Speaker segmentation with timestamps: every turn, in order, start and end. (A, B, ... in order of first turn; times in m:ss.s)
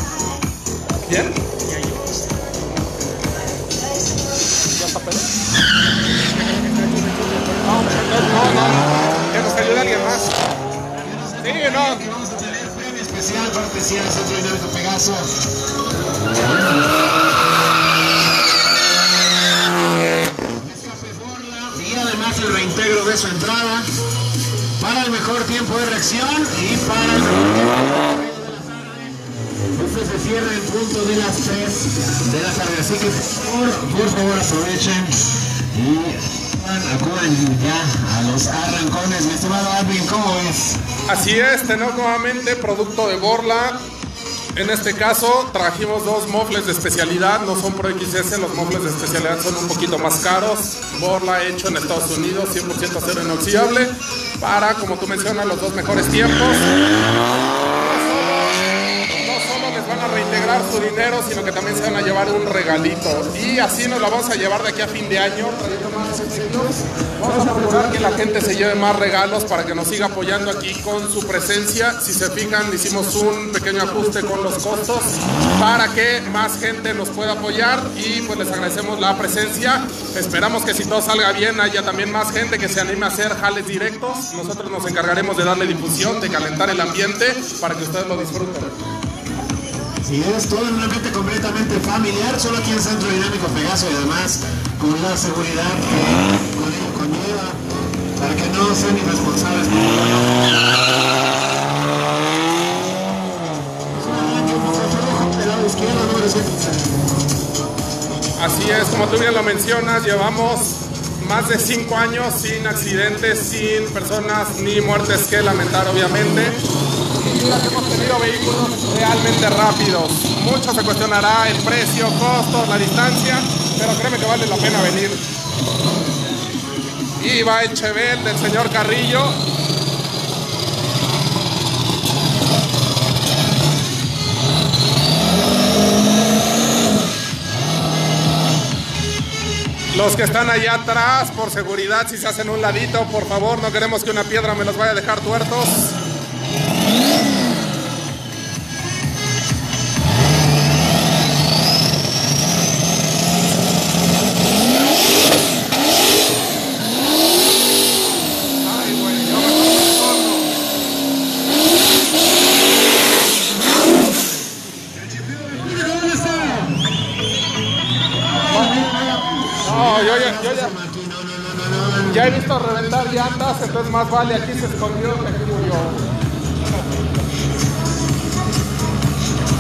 0:01.1-0:01.4 A
0:04.8-0:05.3 A
0:06.7-0:10.4 A
0:11.0-0:15.4 B
0:11.4-0:12.1 A
0:16.3-0:16.9 B
0:20.5-0:23.9 B
0:24.8-0:40.8 B
0:41.1-0:43.8 A
0:44.6-0:56.7 A
0:57.8-0:58.6 A
0:59.1-1:28.8 A
1:30.0-1:37.6 B
1:38.2-1:40.3 B
1:44.0-1:47.0 B
1:48.4-1:56.6 A
1:57.2-2:05.2 A
2:07.2-2:09.4 A
2:19.9-2:26.0 A
2:38.6-2:40.5 A
2:45.5-2:46.8 B
2:48.5-2:52.4 B
2:48.5-2:48.8 A
2:49.6-2:50.7 A
2:52.1-2:56.0 A